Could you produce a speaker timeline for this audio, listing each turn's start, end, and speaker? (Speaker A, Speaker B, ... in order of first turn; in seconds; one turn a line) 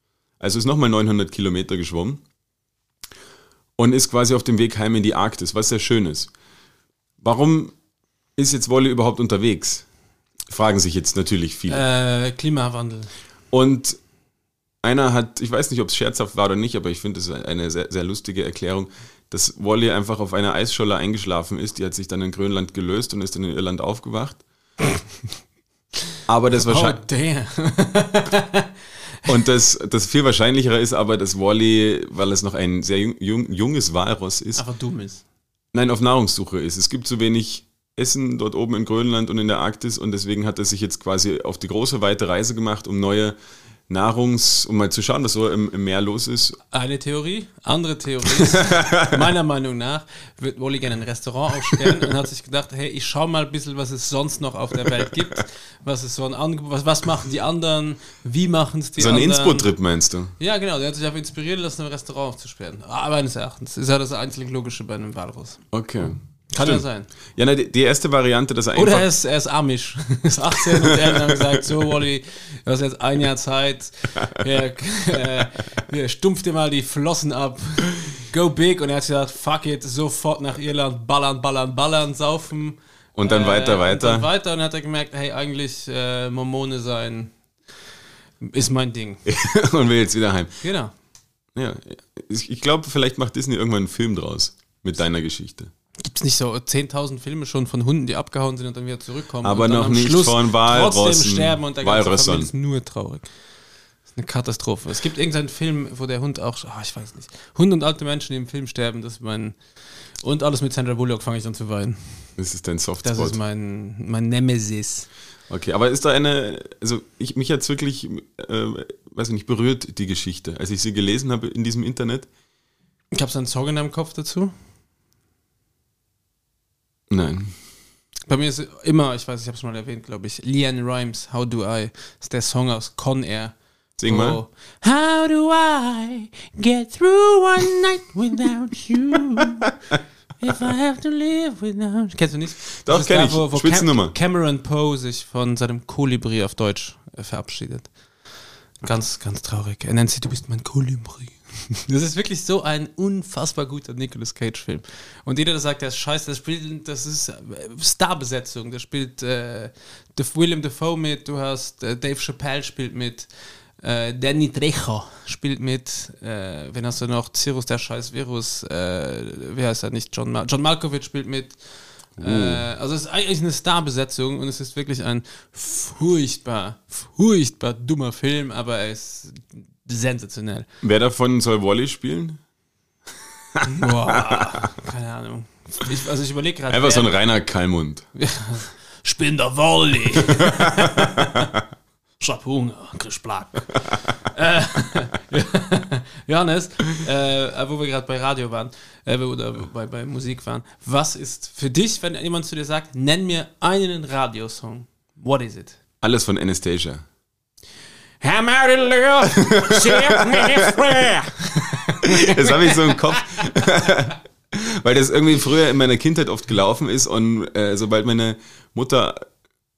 Speaker A: 0.4-2.2
Speaker A: 3.8-6.3
Speaker A: 7.2-7.7
Speaker A: 8.3-9.8
Speaker A: 10.5-11.8
Speaker B: 11.7-13.1
Speaker A: 13.5-14.0
Speaker A: 14.8-24.4
Speaker A: 26.3-27.0
Speaker B: 26.6-28.7
Speaker A: 29.3-34.6
Speaker B: 34.5-35.2
Speaker A: 35.7-43.4
Speaker A: 43.9-46.6
Speaker B: 46.7-59.7
Speaker A: 59.0-60.3
Speaker B: 60.4-65.6
Speaker A: 65.7-69.1
Speaker B: 66.5-67.1
Speaker B: 68.7-87.5
Speaker A: 70.9-71.4
Speaker A: 83.2-84.3
Speaker B: 88.4-89.2
Speaker A: 89.2-90.6
Speaker B: 90.6-90.9
Speaker A: 91.5-95.7
Speaker B: 96.0-103.3
Speaker A: 99.4-102.5
Speaker B: 104.1-112.3
Speaker A: 112.4-113.4
Speaker B: 113.0-115.1
Speaker A: 115.5-122.3
Speaker B: 123.1-124.5
Speaker A: 127.1-127.5
Speaker B: 128.3-139.7
Speaker A: 134.0-134.4
Speaker B: 140.4-180.7
Speaker A: 142.8-144.1
Speaker A: 172.2-172.6
Speaker A: 180.8-182.4
Speaker A: 183.6-184.2
Speaker B: 183.7-187.1
Speaker A: 186.7-188.1
Speaker B: 188.2-191.5
Speaker B: 192.2-205.8
Speaker A: 206.0-207.0
Speaker B: 208.2-213.4
Speaker A: 209.6-211.0
Speaker A: 212.0-219.2